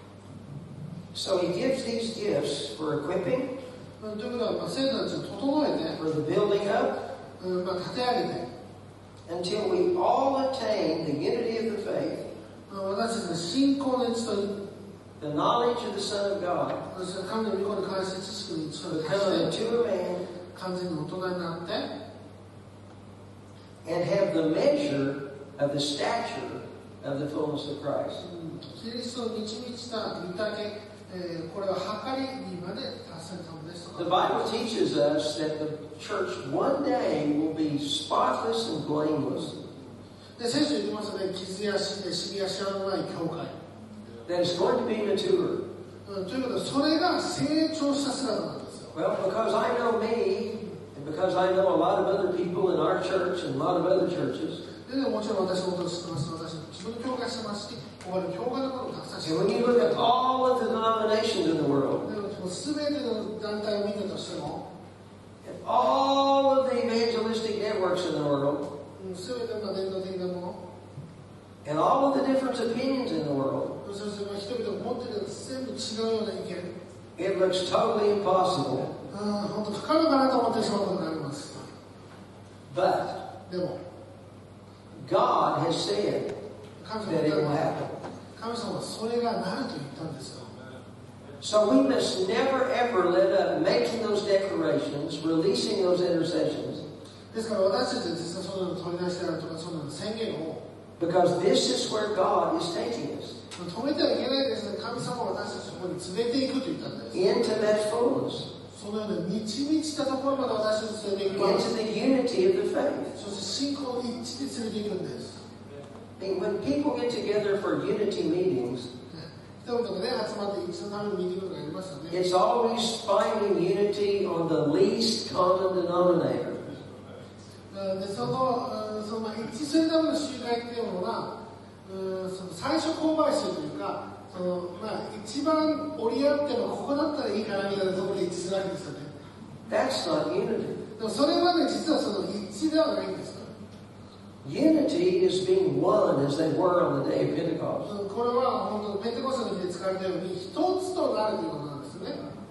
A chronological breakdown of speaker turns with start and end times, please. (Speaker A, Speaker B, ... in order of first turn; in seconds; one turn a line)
Speaker A: 1.1-3.5
Speaker B: 4.0-6.0
Speaker A: 6.0-7.0
Speaker B: 7.4-8.5
Speaker A: 9.2-12.2
Speaker B: 12.7-14.8
Speaker A: 15.2-16.8
Speaker B: 16.9-19.5
Speaker A: 18.9-20.2
Speaker B: 20.5-21.9
Speaker A: 23.8-28.2
Speaker B: 28.2-34.5
Speaker A: 34.0-39.6
Speaker B: 40.4-43.6
Speaker A: 44.2-45.6
Speaker B: 46.0-48.9
Speaker A: 48.9-54.6
Speaker B: 54.8-60.0
Speaker A: 59.2-62.0
Speaker B: 62.0-64.6
Speaker A: 65.4-68.7
Speaker B: 69.0-70.6
Speaker A: 71.6-73.8
Speaker B: 73.8-76.7
Speaker A: 77.2-78.9
Speaker B: 79.1-81.7
Speaker A: 82.7-83.2
Speaker B: 83.5-83.8
Speaker A: 85.0-86.3
Speaker B: 86.8-87.7
Speaker A: 87.0-87.9
Speaker B: 88.3-90.5
Speaker A: 91.4-96.8
Speaker B: 97.3-100.6
Speaker A: 101.0-103.3
Speaker B: 103.5-107.7
Speaker A: 107.1-108.5
Speaker B: 108.7-111.7
Speaker A: 111.3-113.1
Speaker B: 113.1-115.4
Speaker A: 116.2-118.9
Speaker B: 119.1-122.2
Speaker A: 122.1-126.6
Speaker B: 127.7-131.3
Speaker B: 131.8-139.1
Speaker A: 139.7-140.8
Speaker B: 141.0-143.5
Speaker A: 144.4-147.9
Speaker B: 147.8-152.2